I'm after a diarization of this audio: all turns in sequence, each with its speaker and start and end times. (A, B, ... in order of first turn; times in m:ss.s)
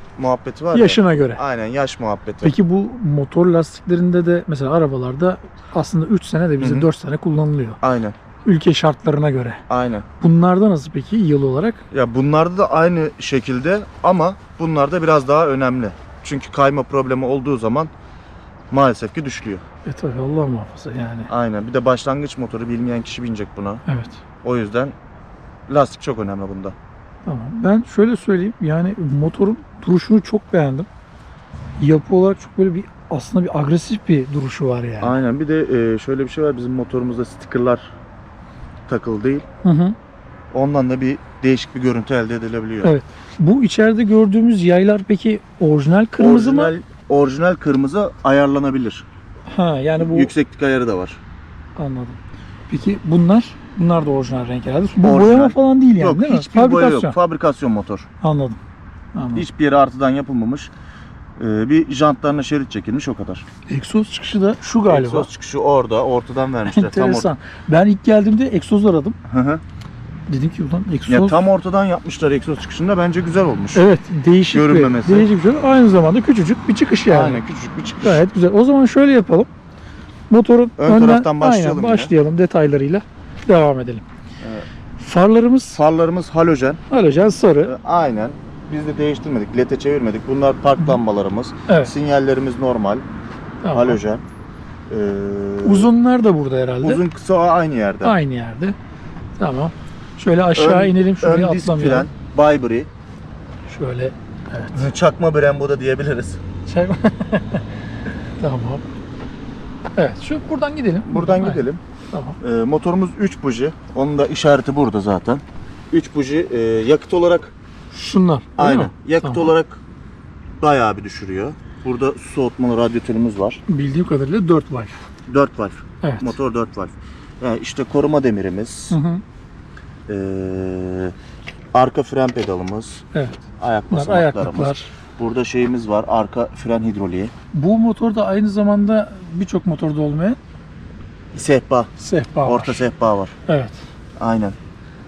0:00.2-0:02.6 A
0:00.7-0:01.4 B
0:02.4-0:07.8 B
0:06.6-0:06.9 A
0:07.8-0:08.2 A
0:08.4-0:09.6 B
0:09.7-0:10.0 A
0:10.2-0:11.8 B
0:11.9-0:17.9 A
0:18.7-0:19.6 A
0:19.8-0:21.3 B
0:21.3-0:23.8 A
0:23.8-0:24.2 B
0:24.4-0:24.9 A
0:25.7-0:26.8 A
0:27.2-0:30.9 B
0:31.8-0:35.2 B
0:35.0-0:37.9 A
0:38.9-0:39.4 A
0:39.6-0:40.0 B
0:40.5-0:42.9 A
0:42.8-0:46.7 B
0:46.2-0:49.0 A
0:49.5-0:50.3 B
0:50.0-0:51.2 A
0:51.8-0:57.2 B
0:55.0-0:58.1 A
0:58.2-0:58.6 B
0:59.1-0:59.5 B
0:59.3-1:00.7 A
1:01.4-1:03.4 A
1:03.7-1:05.3 B
1:04.9-1:07.3 A
1:06.7-1:09.2 B
1:09.3-1:09.6 A
1:10.3-1:11.4 B
1:11.1-1:13.8 A
1:13.7-1:17.4 B
1:14.5-1:15.3 A
1:17.1-1:18.2 A
1:18.0-1:19.5 B
1:20.3-1:24.0 B
1:20.8-1:22.1 A
1:24.4-1:24.6 A
1:25.0-1:25.8 B
1:25.7-1:26.8 A
1:26.9-1:27.8 B
1:27.6-1:33.0 A
1:31.7-1:31.9 B
1:33.6-1:34.0 B
1:33.7-1:34.2 A
1:34.9-1:35.9 A
1:35.6-1:37.0 B
1:36.8-1:38.2 A
1:38.0-1:38.8 B
1:39.4-1:42.1 B
1:40.5-1:42.9 A
1:43.7-1:44.8 B
1:44.7-1:46.4 A
1:46.6-1:47.6 B
1:48.4-1:48.8 B
1:50.0-1:52.4 B
1:51.0-1:51.8 A
1:52.4-1:57.5 A
1:57.9-1:59.5 B
1:58.6-1:59.8 A
2:00.6-2:03.6 A
2:03.7-2:04.9 B
2:05.3-2:09.0 A
2:06.0-2:06.4 B
2:08.9-2:09.2 B
2:10.1-2:11.1 A
2:11.7-2:13.0 A
2:13.1-2:14.9 B
2:13.6-2:17.3 A
2:17.5-2:20.4 B
2:21.3-2:21.9 A
2:22.0-2:22.8 B
2:22.4-2:23.3 A
2:23.5-2:23.8 B
2:24.2-2:24.6 A